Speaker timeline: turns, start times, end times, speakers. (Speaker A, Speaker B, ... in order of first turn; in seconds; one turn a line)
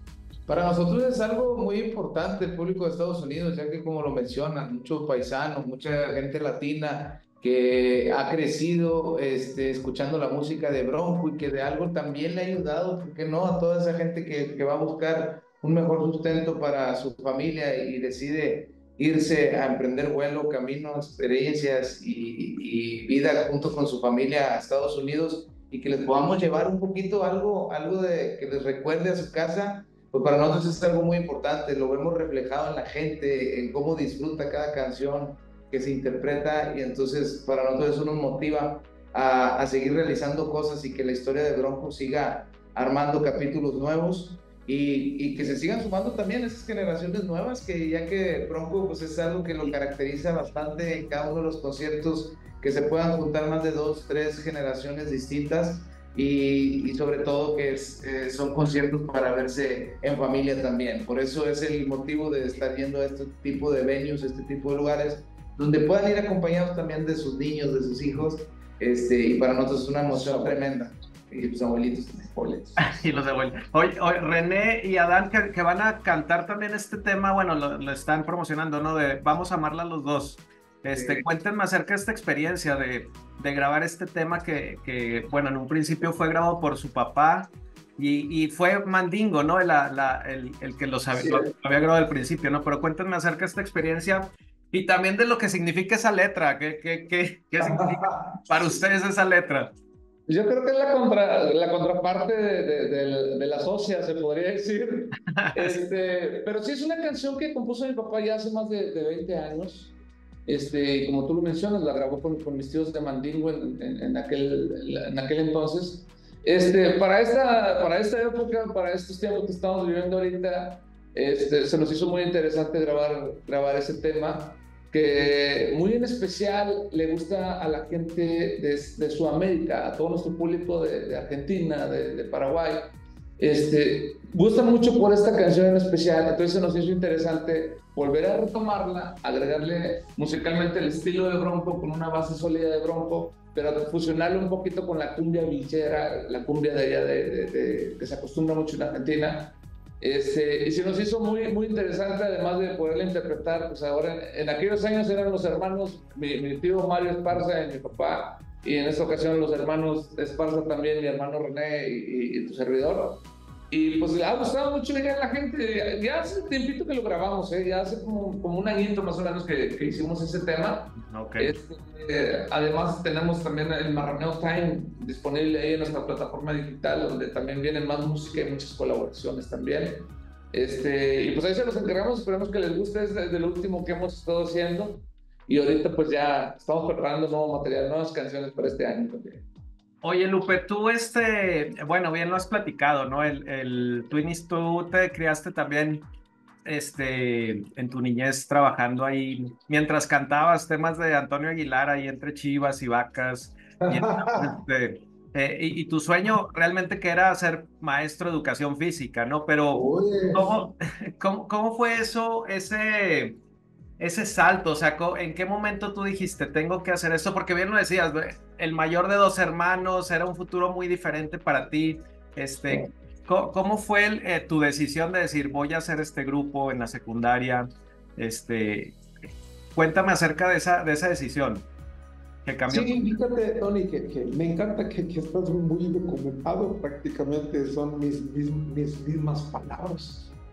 Speaker A: 0.5-72.8
Speaker B: 72.8-99.8
Speaker A: 80.9-81.2
Speaker C: 100.3-109.9
Speaker B: 105.3-105.8
Speaker C: 110.5-189.4
Speaker B: 171.0-171.5
Speaker B: 190.0-196.1
Speaker B: 196.6-213.4
Speaker D: 209.8-210.5
Speaker B: 214.0-229.0
Speaker B: 229.7-231.7
Speaker B: 232.4-233.1
Speaker D: 232.7-240.3